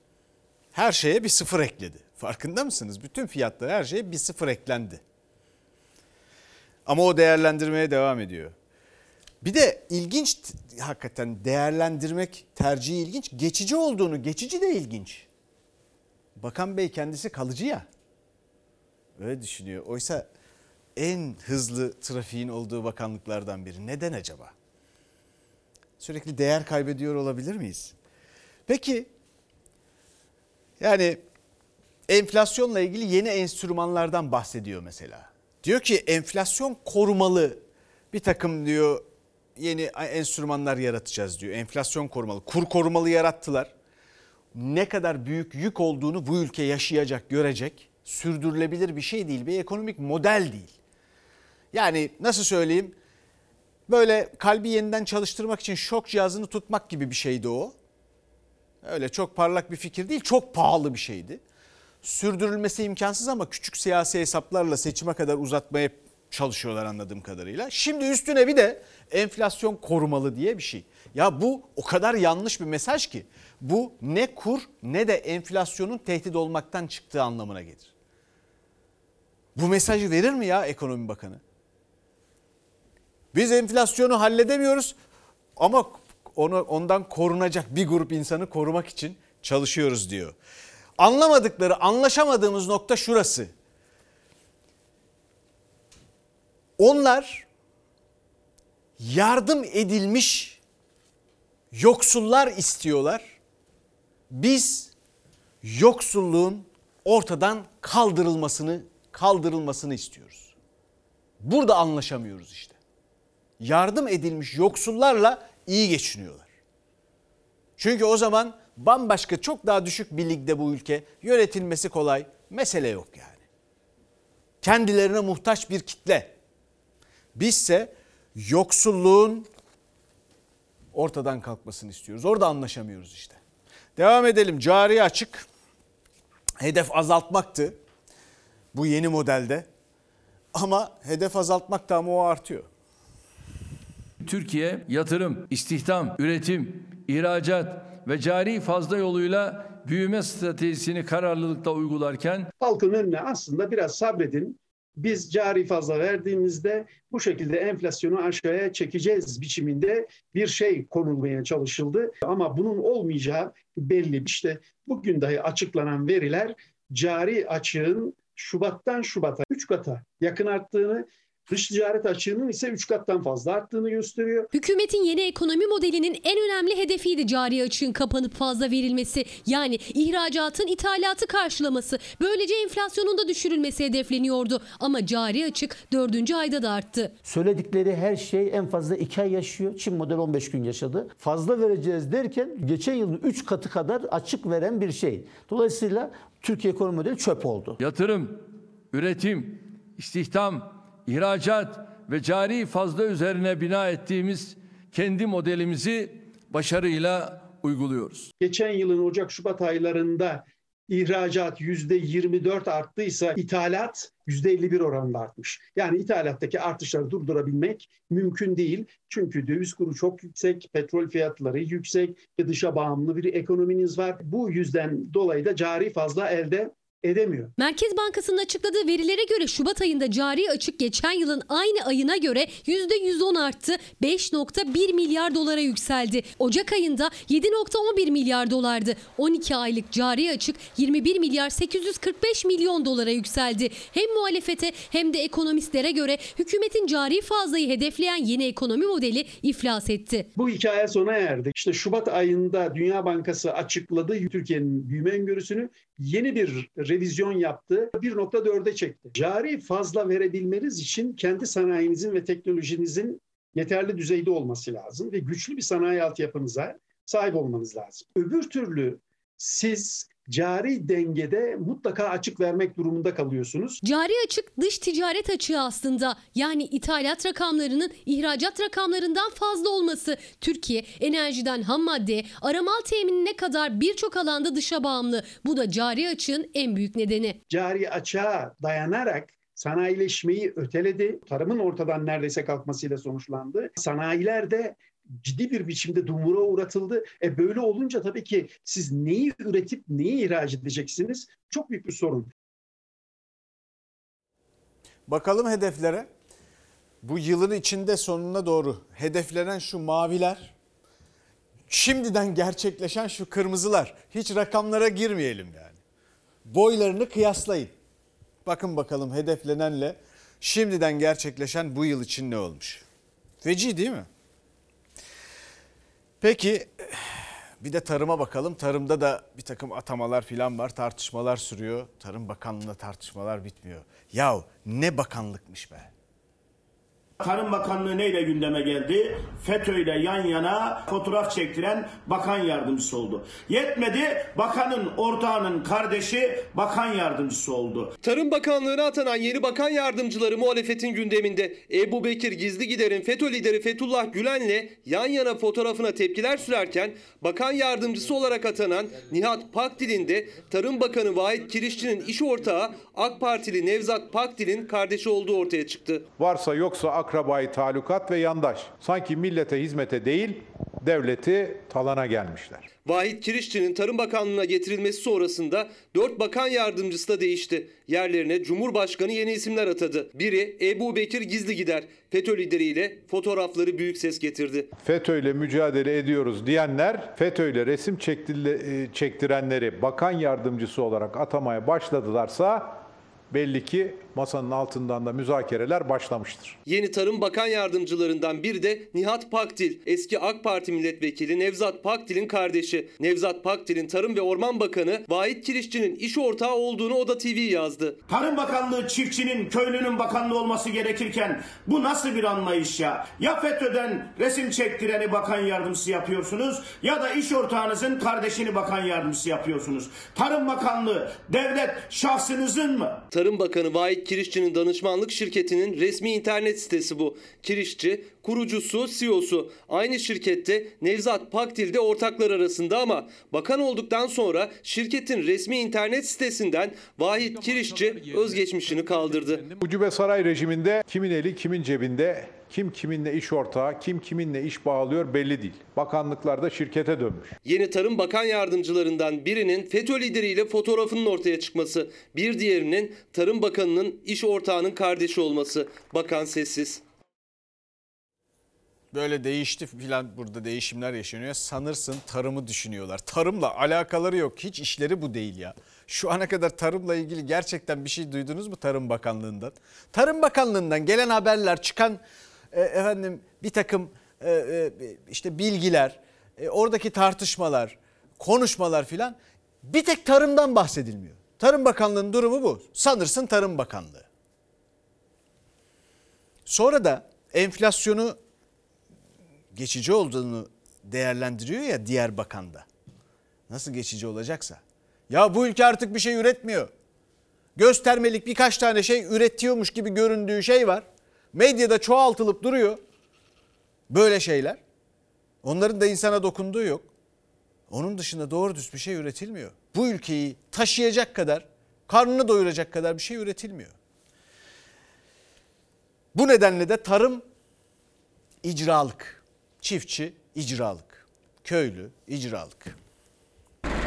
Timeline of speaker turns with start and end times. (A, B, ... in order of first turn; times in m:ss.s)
0:00.7-0:05.0 A
0:06.9-0:08.5 A
0:09.4-0:15.3 A
0:16.4-0:17.9 A
0:19.2-0:20.3 A
0:21.0-0:24.5 A
0:26.0-0:28.0 A
0:28.7-0:29.1 A
0:30.8-0:31.2 A
0:32.1-0:39.0 A
0:39.6-0:43.7 A
0:44.5-0:50.8 A
0:51.7-0:53.0 A
0:53.9-0:57.7 A
0:58.8-1:01.4 A
1:02.0-1:17.9 A
1:19.6-1:21.4 A
1:23.3-1:25.0 A
1:25.6-1:30.4 A
1:31.0-1:33.5 A
1:36.8-1:37.5 A
1:39.0-1:40.6 A
1:41.7-1:43.4 A
1:44.3-1:44.9 A
1:45.6-1:50.6 A
1:51.4-1:52.8 A
1:53.6-1:56.5 A
1:57.8-2:03.4 A
2:04.6-2:06.3 A
2:07.4-2:09.5 A
2:10.9-2:13.4 A
2:14.0-2:15.5 A
2:16.6-2:17.8 A
2:18.7-2:19.7 A
2:20.5-2:22.7 A
2:24.2-2:32.5 B
2:32.6-2:54.5 C
2:54.5-3:07.1 D
3:07.2-3:17.8 E
3:17.8-3:28.3 B
3:28.4-3:47.5 C
3:47.6-4:10.3 D
4:10.4-4:33.8 C
4:33.8-4:47.4 D
4:47.5-5:02.3 C
5:05.1-5:06.1 A
5:07.0-5:10.5 A
5:11.7-5:15.8 A
5:16.5-5:17.7 A
5:18.4-5:22.8 A
5:23.4-5:24.1 A
5:26.2-5:35.9 A
5:37.2-5:47.9 F
5:48.0-6:06.1 G
6:06.2-6:12.7 H
6:12.8-6:24.7 G
6:24.8-6:36.6 H
6:36.7-6:48.0 G
6:48.1-7:03.0 F
7:03.1-7:19.4 G
7:19.6-7:27.4 H
7:27.4-7:36.8 G
7:38.9-7:52.0 A
7:52.5-8:04.1 A
8:06.5-8:08.2 A
8:09.5-8:12.6 A
8:13.5-8:16.7 A
8:17.6-8:22.8 A
8:23.9-8:24.6 A
8:25.4-8:26.9 A
8:27.7-8:33.7 A
8:36.1-8:37.2 A
8:38.4-8:42.8 A